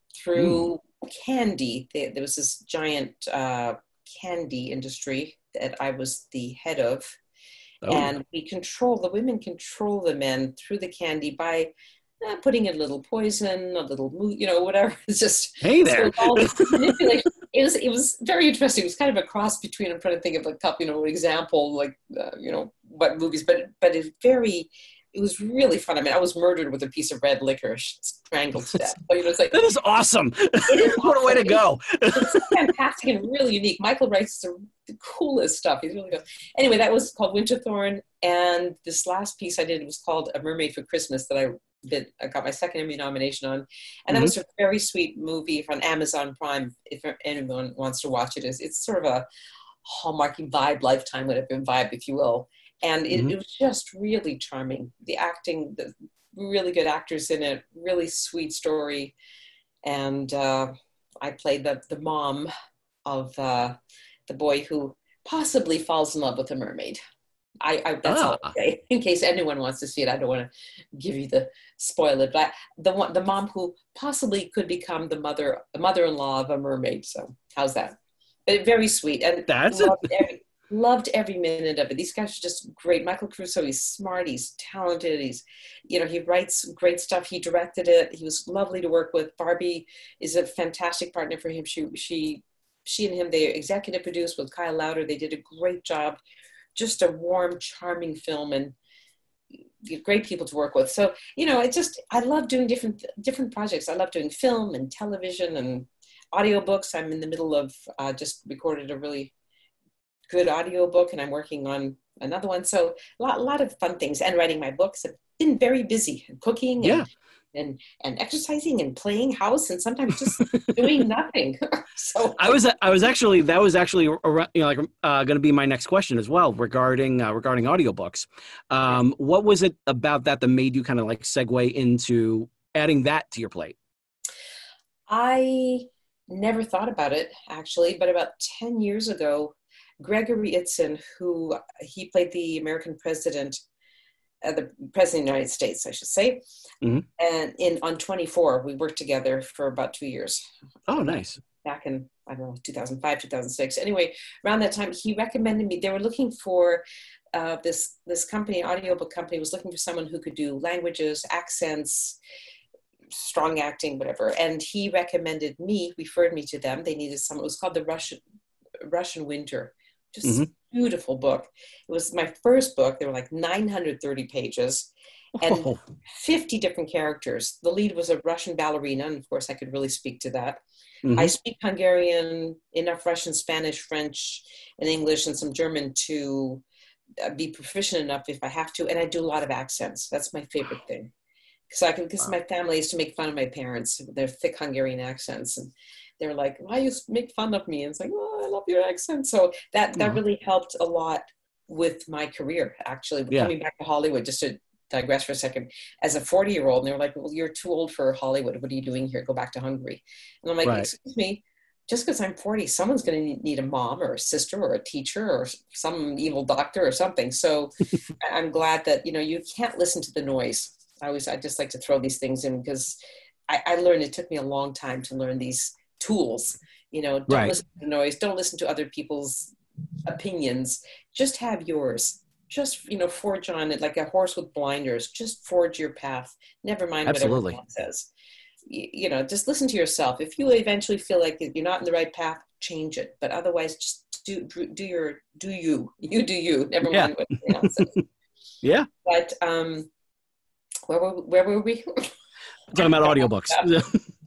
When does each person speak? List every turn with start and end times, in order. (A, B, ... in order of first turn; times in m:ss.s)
0:00.2-0:07.2 A
0:07.8-0:08.2 B
0:07.9-0:29.6 A
0:15.6-0:17.0 B
0:29.5-0:32.6 B
0:30.7-0:31.6 A
0:32.1-0:49.3 A
0:49.8-0:59.2 A
0:59.8-1:02.5 A
1:03.1-1:03.8 A
1:04.3-1:07.0 A
1:07.6-1:36.2 A
1:08.1-1:08.5 B
1:19.5-1:20.0 B
1:36.8-1:38.8 A
1:39.8-1:49.3 A
1:50.3-2:02.6 A
1:56.8-1:57.1 B
2:00.4-2:00.9 B
2:02.4-2:13.8 B
2:15.1-2:23.6 A
2:24.4-2:26.4 A
2:27.2-2:30.4 A
2:30.9-2:31.4 B
2:31.6-2:42.2 A
2:43.1-2:48.2 A
2:48.8-3:00.6 A
2:50.2-2:50.5 B
2:55.4-2:55.8 B
3:01.0-3:01.3 B
3:01.1-3:06.6 A
3:07.2-3:11.1 A
3:11.7-3:43.0 A
3:30.6-3:30.9 B
3:43.5-3:49.6 A
3:47.3-3:47.6 B
3:50.1-3:58.1 A
3:57.1-3:57.6 B
3:58.7-4:08.0 A
4:06.8-4:07.9 B
4:08.6-4:08.9 B
4:09.0-4:09.9 A
4:10.9-4:12.1 A
4:12.7-4:13.7 A
4:12.7-4:14.1 B